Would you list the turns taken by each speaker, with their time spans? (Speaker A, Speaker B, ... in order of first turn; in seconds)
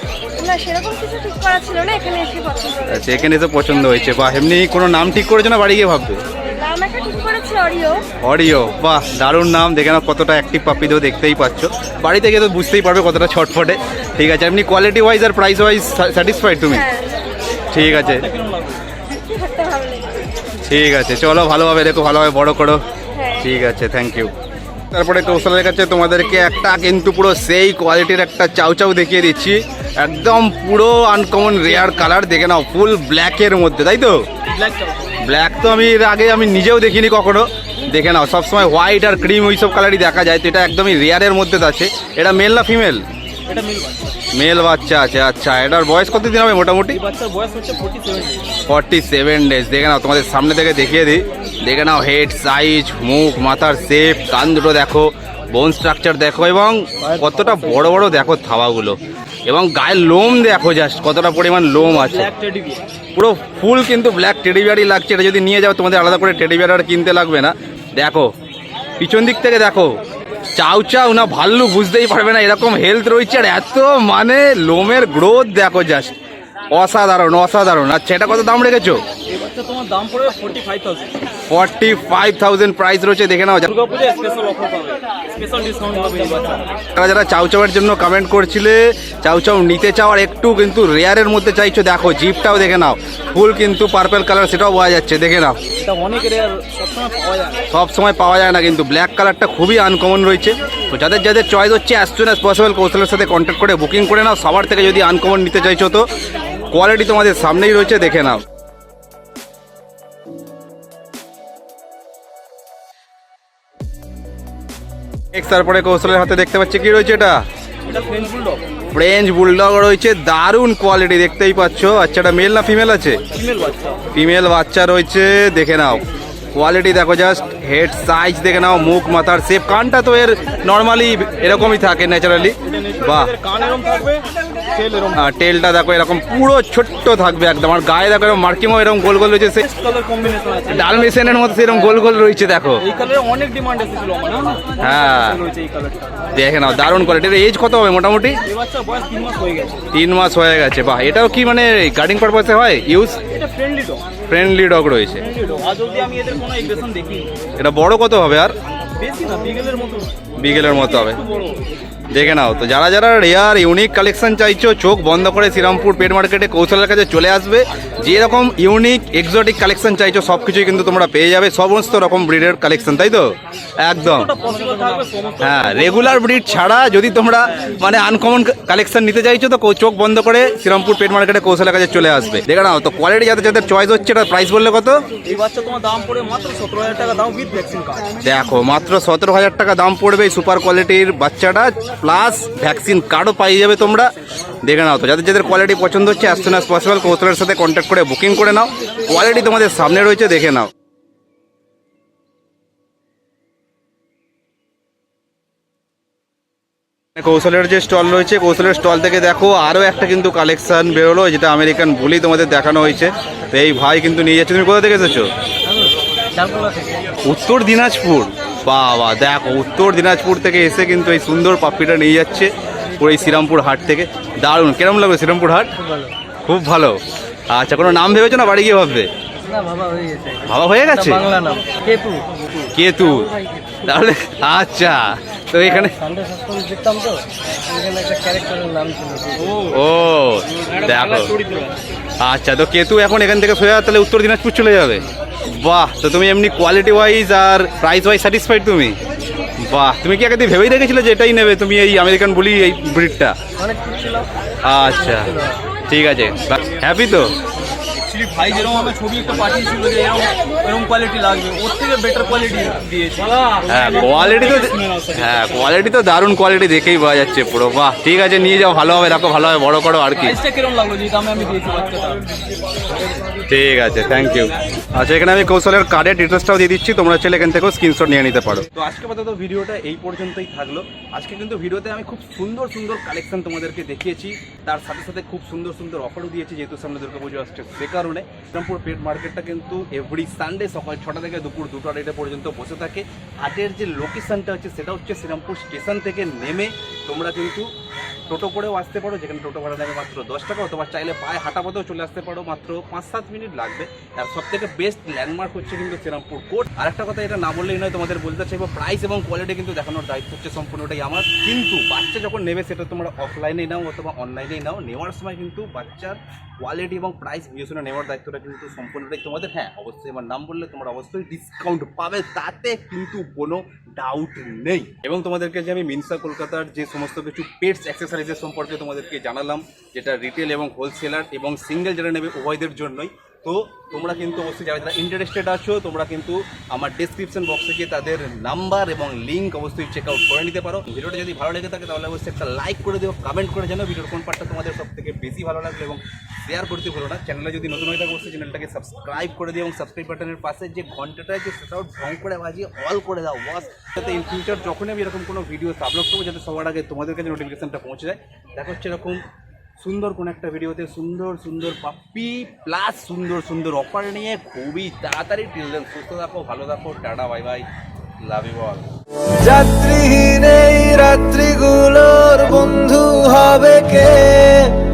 Speaker A: 0.4-3.1, 6.4-8.0, 16.7-17.2, 19.2-20.2, 23.1-23.5
Speaker B: 2.9-6.2, 8.2-16.9, 17.7-18.3, 20.6-22.8, 23.4-24.3, 24.9-34.3, 35.2-43.0, 44.3-47.0, 48.7-62.3, 63.1-68.3, 69.0-70.0, 70.6-76.2, 76.7-79.0, 81.5-83.7, 87.0-95.6, 97.7-106.1, 106.7-108.4, 115.3-117.4, 118.9-123.2, 124.1-126.0, 126.5-133.3, 135.2-139.6, 140.7-142.8, 144.8-145.4, 146.3-148.4, 149.9-153.2, 154.3-155.3, 157.6-158.6, 160.4-161.2, 162.1-174.3, 175.4-185.1, 188.2-200.7, 207.2-215.3, 217.2-225.7, 226.4-229.1, 230.5-231.2, 232.7-233.3, 233.8-235.9, 239.7-241.3, 242.2-249.0, 249.6-253.4, 254.6-255.3, 255.9-257.4, 263.7-270.4, 273.5-297.7, 298.3-359.2, 359.8-367.7, 368.2-368.9
Speaker C: 17.7-18.8, 34.5-35.1, 43.5-44.2, 46.9-48.5, 57.2-57.8, 61.8-62.8, 79.3-81.2, 83.6-86.7, 95.8-97.6, 117.8-118.7, 123.3-124.0, 132.6-135.3, 139.6-142.0, 142.8-146.3, 148.5-149.9, 153.3-154.1, 155.2-157.3, 159.0-161.6, 174.0-176.2, 177.4-177.8, 185.2-188.2, 239.4-239.8, 240.5-241.8, 258.0-265.6, 270.2-272.2
Speaker D: 215.7-217.1, 225.8-226.1, 229.5-233.8, 235.6-239.5, 253.6-254.3, 255.0-255.5
Speaker E: 369.4-374.7